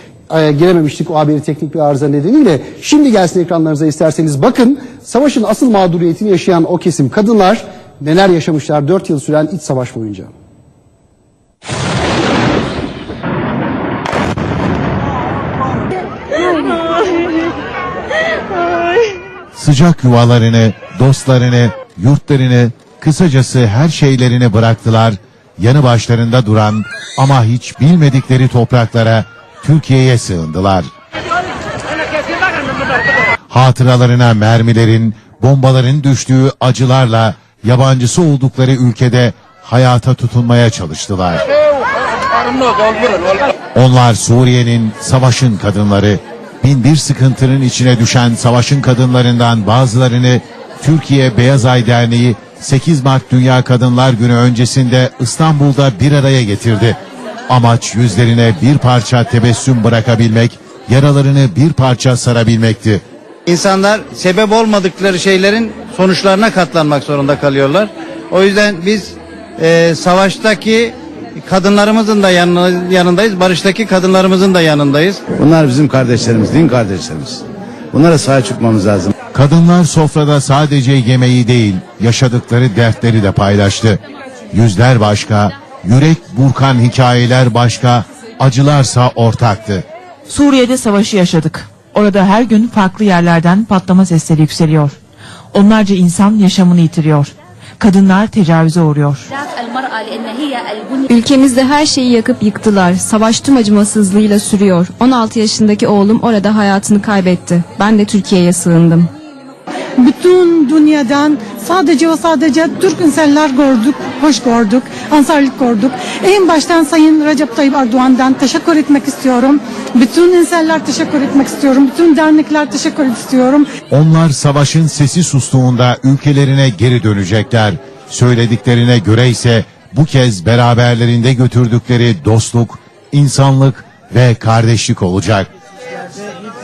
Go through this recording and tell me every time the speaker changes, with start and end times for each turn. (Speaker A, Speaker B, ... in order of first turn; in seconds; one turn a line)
Speaker A: 0.3-10.3
Speaker B: 19.6-30.9
Speaker B: 33.5-41.4
Speaker B: 43.8-57.0
Speaker B: 57.5-63.0
Speaker C: 63.5-75.2
Speaker D: 75.4-79.1
Speaker B: 79.3-84.0
Speaker B: 84.5-89.8
Speaker E: 90.3-95.0
Speaker E: 95.5-99.3
Speaker F: 101.1-109.1
Speaker G: 110.0-123.7
Speaker B: 123.9-135.5